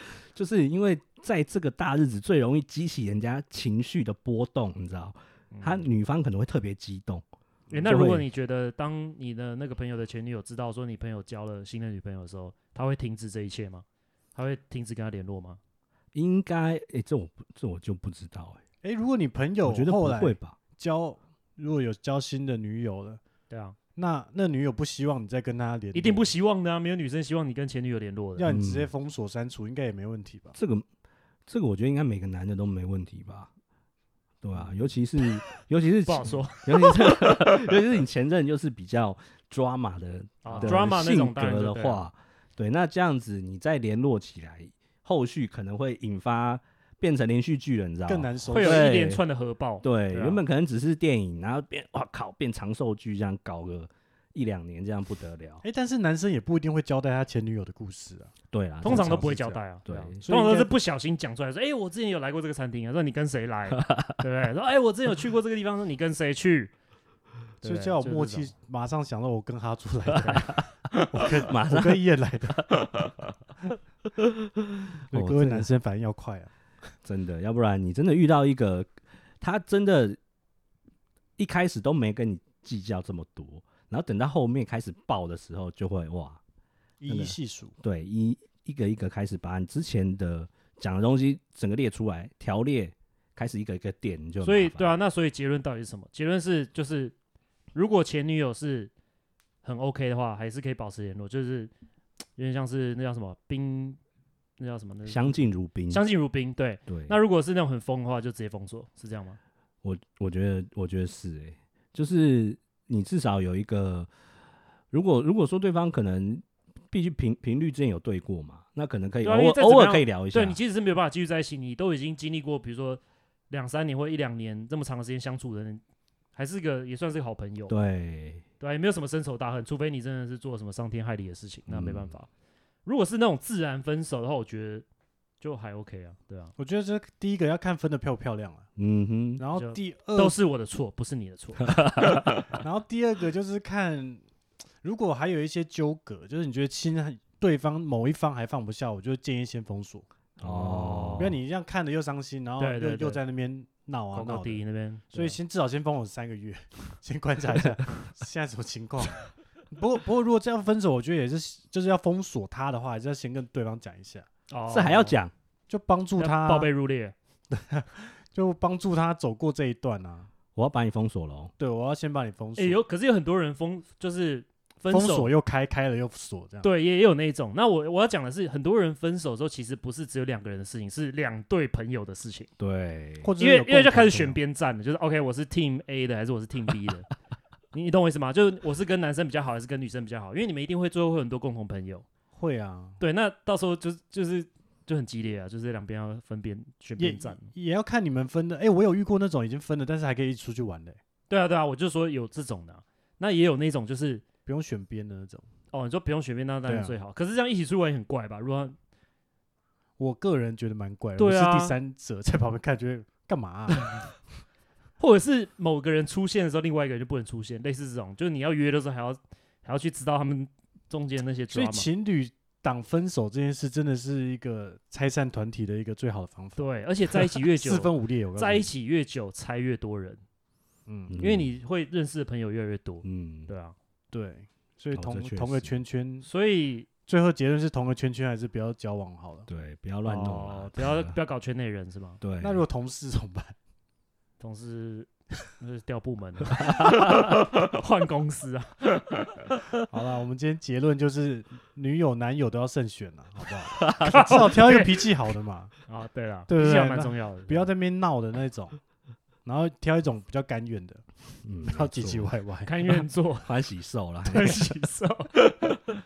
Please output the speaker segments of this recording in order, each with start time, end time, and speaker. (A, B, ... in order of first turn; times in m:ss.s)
0:00.2-0:07.2 A
0:05.5-0:05.9 B
0:07.7-0:08.0 C
0:07.7-0:15.6 B
0:07.9-0:08.3 A
0:16.1-0:18.6 A
0:18.8-0:23.2 C
0:19.6-0:20.6 A
0:23.5-0:23.8 B
0:24.0-0:26.3 C
0:25.9-0:28.5 B
0:28.4-0:30.6 C
0:28.5-0:28.9 A
0:30.6-0:30.9 A
0:31.5-0:33.5 A
0:34.4-0:49.2 A
0:36.1-0:36.9 B
0:40.4-0:42.1 B
0:40.5-0:40.8 C
0:48.1-0:49.0 C
0:48.5-0:50.4 B
0:49.8-0:55.6 A
0:55.6-0:58.3 C
0:58.5-1:00.2 A
0:58.8-1:06.7 B
0:58.9-0:59.4 C
1:00.2-1:00.7 C
1:03.8-1:04.2 A
1:07.6-1:08.5 B
1:07.6-1:12.9 C
1:11.2-1:12.0 A
1:14.2-1:15.7 A
1:15.1-1:16.5 C
1:17.0-1:18.9 A
1:19.4-1:20.2 A
1:21.4-1:26.4 A
1:27.0-1:27.7 C
1:27.1-1:35.0 A
1:34.4-1:37.1 B
1:37.7-1:38.9 B
1:39.6-1:41.7 B
1:42.4-1:44.0 B
1:44.6-1:49.4 B
1:45.1-1:46.0 A
1:46.9-1:47.2 A
1:49.8-1:54.1 A
1:54.9-2:00.6 A
1:59.2-2:05.8 B
2:06.4-2:07.7 B
2:07.7-2:08.4 A
2:08.6-2:12.3 B
2:11.7-2:12.1 A
2:12.8-2:14.8 B
2:15.4-2:16.5 B
2:16.6-2:18.7 C
2:18.8-2:19.4 A
2:19.4-2:20.4 C
2:19.6-2:22.2 B
2:21.7-2:22.4 A
2:22.5-2:24.2 C
2:24.8-2:30.1 C
2:30.4-2:31.3 B
2:30.4-2:31.4 A
2:30.6-2:44.3 C
2:32.6-2:33.2 B
2:34.1-2:35.4 B
2:44.5-2:45.2 B
2:44.7-2:45.3 A
2:45.7-2:46.7 C
2:46.2-2:47.1 B
2:47.5-2:50.3 C
2:50.6-2:51.5 A
2:51.6-2:52.8 C
2:52.6-2:55.3 B
2:54.9-2:56.7 C
2:56.6-3:02.5 B
3:02.6-3:03.3 A
3:03.2-3:04.4 C
3:03.4-3:07.1 B
3:07.7-3:12.1 B
3:12.4-3:13.0 C
3:13.0-3:17.5 B
3:17.0-3:21.0 C
3:21.3-3:24.2 B
3:24.5-3:25.5 C
3:25.7-3:28.8 B
3:26.7-3:27.0 C
3:30.0-3:33.9 C
3:31.2-3:31.8 B
3:35.0-3:41.9 B
3:41.5-3:48.7 C
3:46.6-3:50.2 B
3:50.9-3:51.2 C
3:51.1-3:51.5 A
3:51.2-3:53.8 B
3:53.0-3:53.5 A
3:54.1-3:56.3 C
3:54.9-3:55.7 A
3:56.2-3:56.9 B
3:57.1-3:59.5 C
3:59.5-4:01.2 A
4:00.0-4:02.2 B
4:02.2-4:02.6 A
4:02.4-4:03.6 C
4:04.4-4:09.4 B
4:06.7-4:07.2 A
4:09.8-4:15.7 C
4:13.8-4:14.5 A
4:14.0-4:15.0 B
4:15.9-4:17.7 B
4:16.5-4:18.8 C
4:19.4-4:21.0 C
4:21.4-4:22.3 A
4:21.7-4:22.7 C
4:22.6-4:23.5 B
4:23.4-4:24.6 A
4:24.2-4:25.8 B